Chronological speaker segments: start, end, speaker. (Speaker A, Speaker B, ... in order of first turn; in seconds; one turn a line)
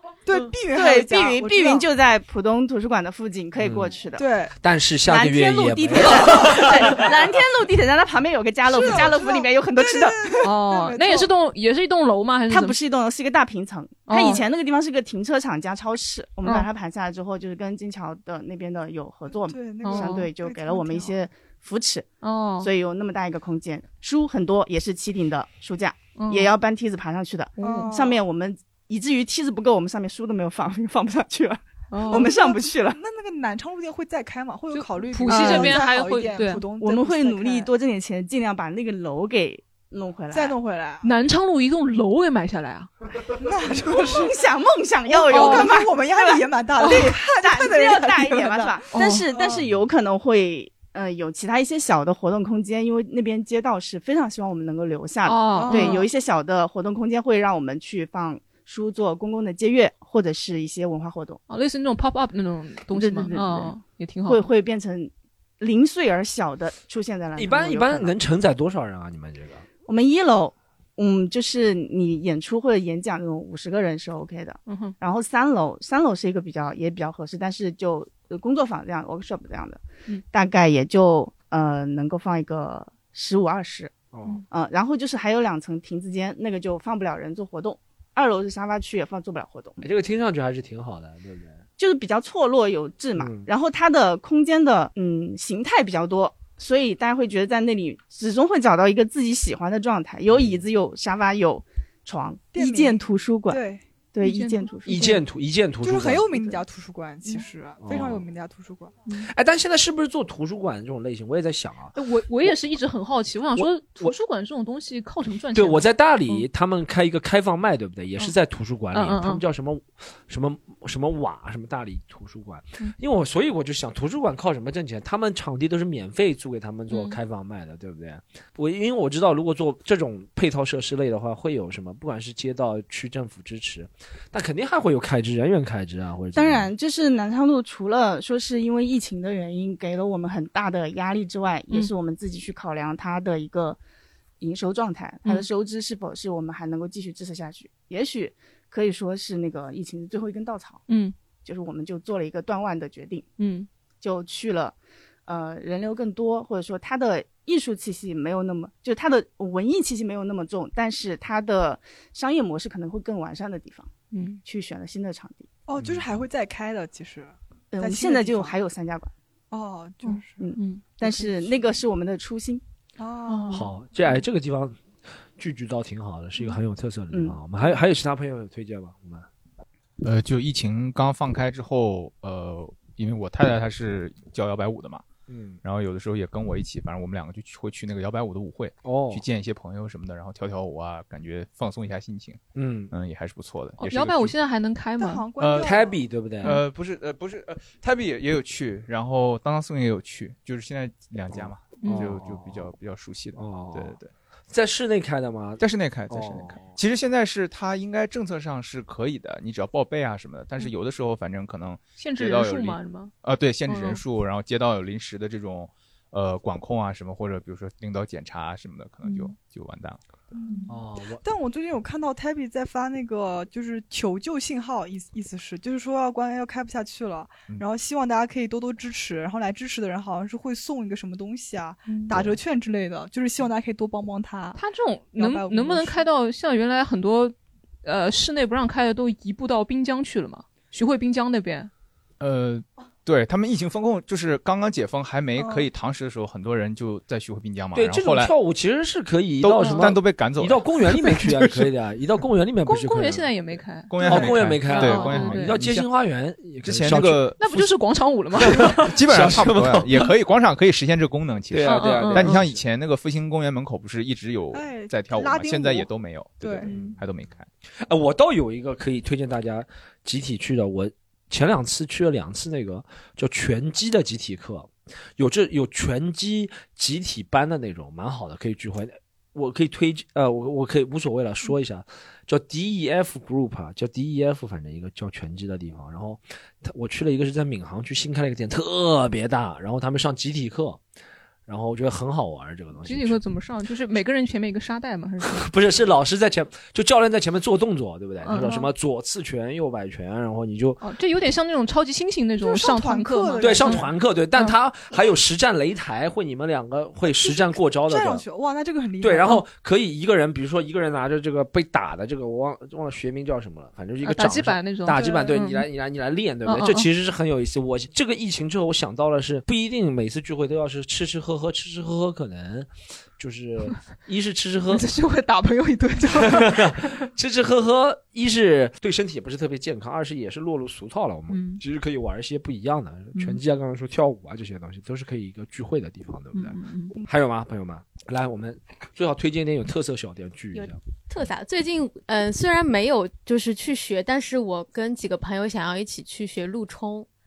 Speaker A: 0.3-1.9
Speaker B: 0.7-4.3
Speaker C: 3.6-3.9
Speaker A: 4.2-4.5
Speaker C: 4.6-7.0
Speaker B: 5.0-10.4
Speaker A: 8.7-11.3
Speaker D: 10.4-12.8
Speaker B: 12.5-22.1
Speaker D: 14.1-14.4
Speaker A: 19.5-21.2
Speaker D: 19.8-20.3
Speaker D: 22.2-22.7
Speaker B: 22.6-33.0
Speaker D: 26.2-26.5
Speaker D: 27.6-27.9
Speaker A: 27.6-28.2
Speaker D: 31.9-32.3
Speaker A: 32.1-37.7
Speaker D: 34.7-36.6
Speaker B: 35.3-35.9
Speaker B: 36.8-40.6
Speaker A: 40.3-41.1
Speaker D: 41.0-42.9
Speaker A: 43.4-44.4
Speaker B: 43.9-61.4
Speaker A: 45.1-49.6
Speaker D: 45.3-45.7
Speaker D: 46.8-47.1
Speaker D: 48.9-49.3
Speaker D: 55.2-56.1
Speaker A: 55.5-56.0
Speaker D: 61.5-64.4
Speaker B: 62.9-63.8
Speaker B: 64.3-68.2
Speaker C: 67.4-69.7
Speaker B: 69.9-83.9
Speaker D: 74.7-75.0
Speaker C: 84.1-84.4
Speaker B: 84.5-89.8
Speaker C: 89.8-91.6
Speaker B: 91.8-105.2
Speaker C: 93.2-93.5
Speaker C: 100.3-100.6
Speaker A: 102.5-103.8
Speaker D: 104.2-105.2
Speaker C: 104.9-106.3
Speaker A: 105.8-109.0
Speaker C: 107.8-108.3
Speaker C: 109.2-112.6
Speaker D: 112.0-116.5
Speaker C: 113.6-114.1
Speaker C: 115.5-136.7
Speaker D: 118.9-119.4
Speaker D: 126.9-127.2
Speaker B: 136.3-143.8
Speaker B: 144.4-150.8
Speaker D: 150.9-151.2
Speaker B: 151.4-153.3
Speaker D: 153.4-153.7
Speaker B: 154.0-154.8
Speaker B: 155.3-163.9
Speaker D: 164.1-164.4
Speaker B: 164.4-165.5
Speaker A: 165.7-168.6
Speaker C: 165.8-166.1
Speaker B: 167.7-169.1
Speaker A: 169.5-170.4
Speaker D: 170.0-171.2
Speaker B: 170.4-172.6
Speaker A: 173.0-173.7
Speaker D: 173.3-173.7
Speaker C: 173.5-174.7
Speaker C: 175.4-179.3
Speaker B: 177.1-177.4
Speaker E: 180.0-185.1
Speaker C: 185.3-185.6
Speaker E: 185.6-192.4
Speaker C: 188.8-189.2
Speaker C: 192.6-192.9
Speaker E: 192.9-194.3
Speaker D: 193.8-195.2
Speaker A: 195.0-196.0
Speaker E: 195.4-195.7
Speaker C: 195.6-196.6
Speaker E: 196.4-204.1
Speaker C: 201.3-202.7
Speaker D: 201.8-202.1
Speaker C: 203.4-204.0
Speaker C: 204.5-206.8
Speaker E: 205.6-220.0
Speaker D: 212.0-213.1
Speaker D: 213.7-214.0
Speaker D: 219.0-219.3
Speaker A: 220.3-234.6
Speaker C: 220.7-221.2
Speaker D: 231.9-232.2
Speaker D: 234.6-241.7
Speaker A: 235.1-236.1
Speaker E: 242.2-248.3
Speaker A: 245.3-245.7
Speaker C: 247.8-257.2
Speaker E: 249.4-251.7
Speaker D: 249.6-249.9
Speaker D: 252.7-255.6
Speaker E: 253.9-255.9
Speaker E: 256.6-257.7
Speaker D: 257.4-258.9
Speaker C: 258.4-260.1
Speaker E: 258.4-267.5
Speaker C: 261.5-262.6
Speaker D: 261.6-262.4
Speaker A: 264.5-266.7
Speaker C: 266.7-267.0
Speaker C: 267.8-290.8
Speaker C: 291.5-293.2
Speaker D: 292.8-295.5
Speaker C: 295.3-300.8
Speaker D: 298.2-298.7
Speaker D: 300.8-304.6
Speaker A: 302.4-303.9
Speaker C: 303.4-308.2
Speaker A: 307.1-309.4
Speaker C: 309.0-324.9
Speaker D: 314.0-315.6
Speaker D: 316.5-316.9
Speaker D: 324.7-327.1
Speaker C: 326.1-340.8
Speaker D: 331.3-331.6
Speaker D: 336.3-336.9
Speaker F: 340.5-347.1